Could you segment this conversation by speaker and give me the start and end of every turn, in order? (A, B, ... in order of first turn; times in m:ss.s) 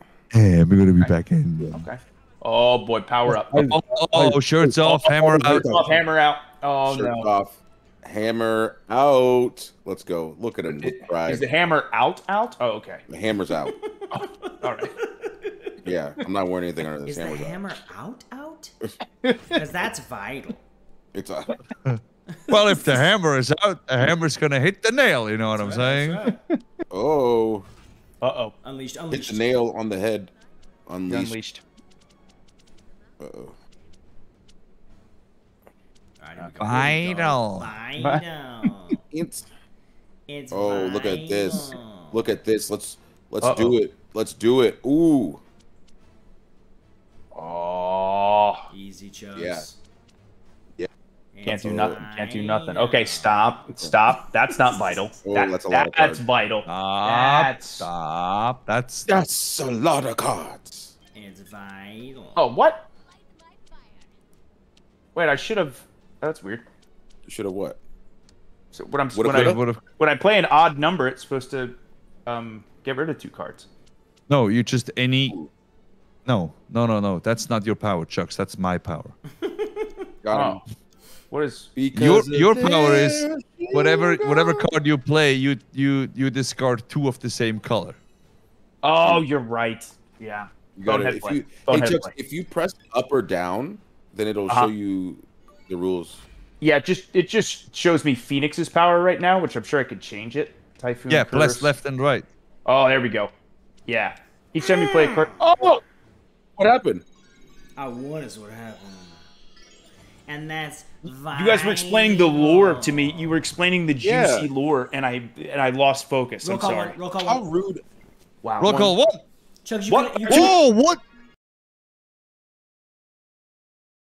0:00.3-0:01.8 A
0:01.7-0:07.3 B
0:03.3-0:05.6 A
0:04.9-0:06.0 C
0:06.8-0:11.5 C
0:10.7-0:13.0 B
0:13.1-0:13.7 C
0:13.8-0:15.8 D
0:14.1-0:15.0 B
0:15.8-0:17.7 C
0:17.0-0:18.7 D
0:19.2-0:19.6 B
0:19.5-0:20.6 D
0:21.1-0:21.6 C
0:21.8-0:26.2 A
0:22.3-0:23.0 D
0:25.5-0:26.4 D
0:26.9-0:27.7 C
0:28.2-0:28.5 B
0:28.6-0:29.6 D
0:29.1-0:30.3 C
0:30.9-0:31.4 C
0:31.1-0:31.6 B
0:33.2-0:33.5 C
0:36.2-0:39.0 D
0:36.6-0:37.7 A
0:38.0-0:38.7 B
0:39.0-0:39.5 C
0:40.3-0:42.3 D
0:40.5-0:45.4 C
0:43.4-0:43.8 B
0:47.3-0:48.7 B
0:48.7-0:49.8 D
0:49.4-0:49.6 C
0:51.3-0:53.6 D
0:51.4-0:57.9 B
0:51.5-0:52.0 C
0:55.2-0:56.2 C
0:56.7-0:59.2 A
0:59.1-1:00.9 C
1:01.1-1:02.4 D
1:02.4-1:02.9 B
1:05.1-1:06.6 B
1:07.2-1:07.8 C
1:08.7-1:13.7 B
1:09.1-1:09.6 C
1:09.3-1:09.8 A
1:14.3-1:15.4 A
1:16.2-1:19.1 A
1:19.3-1:20.0 D
1:20.2-1:20.6 C
1:20.3-1:20.6 B
1:21.3-1:21.7 B
1:21.8-1:24.7 C
1:21.9-1:28.0 A
1:28.8-1:32.1 B
1:30.8-1:36.2 C
1:36.6-1:41.7 B
1:41.1-1:42.2 A
1:42.6-1:43.3 B
1:43.9-1:45.8 B
1:44.6-1:45.3 C
1:46.6-1:47.0 C
1:47.8-1:49.2 D
1:50.3-1:53.4 D
1:51.3-1:57.0 B
1:54.0-1:54.5 C
1:56.4-1:57.4 D
1:57.2-1:57.8 C
1:58.4-1:58.9 B
1:58.6-1:59.2 A
1:58.6-1:58.9 C
1:59.6-2:00.6 D
1:59.9-2:00.5 B
2:00.3-2:01.0 A